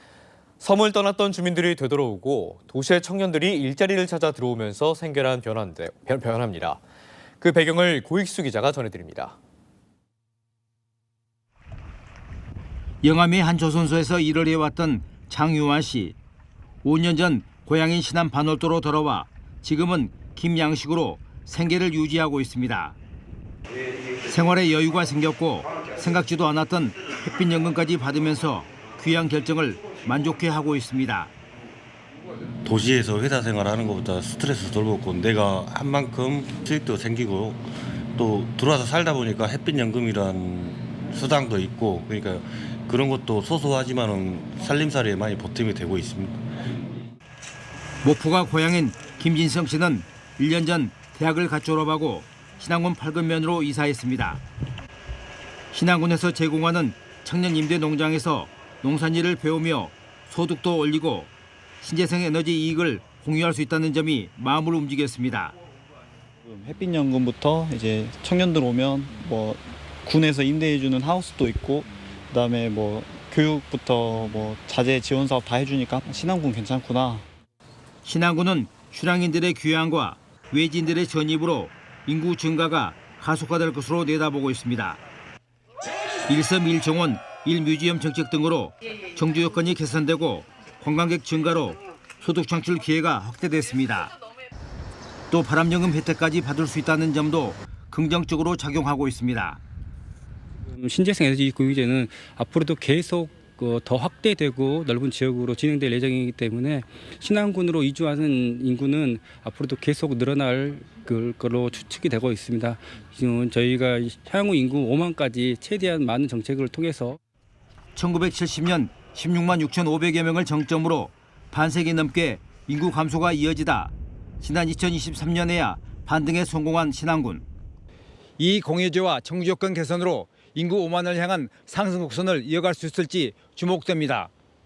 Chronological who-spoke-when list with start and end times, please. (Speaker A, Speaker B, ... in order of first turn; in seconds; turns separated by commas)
Speaker A: 0.6-6.8, Speaker A: 7.4-9.4, Speaker B: 13.0-16.2, Speaker B: 16.8-23.0, Speaker B: 24.3-31.3, Speaker C: 32.6-37.6, Speaker C: 38.1-46.4, Speaker B: 48.0-54.4, Speaker B: 55.7-65.5, Speaker D: 66.4-77.2, Speaker B: 78.0-85.0, Speaker B: 86.3-94.2, Speaker B: 95.3-99.6, Speaker E: 100.7-117.2, Speaker B: 118.0-127.4, Speaker B: 128.4-134.3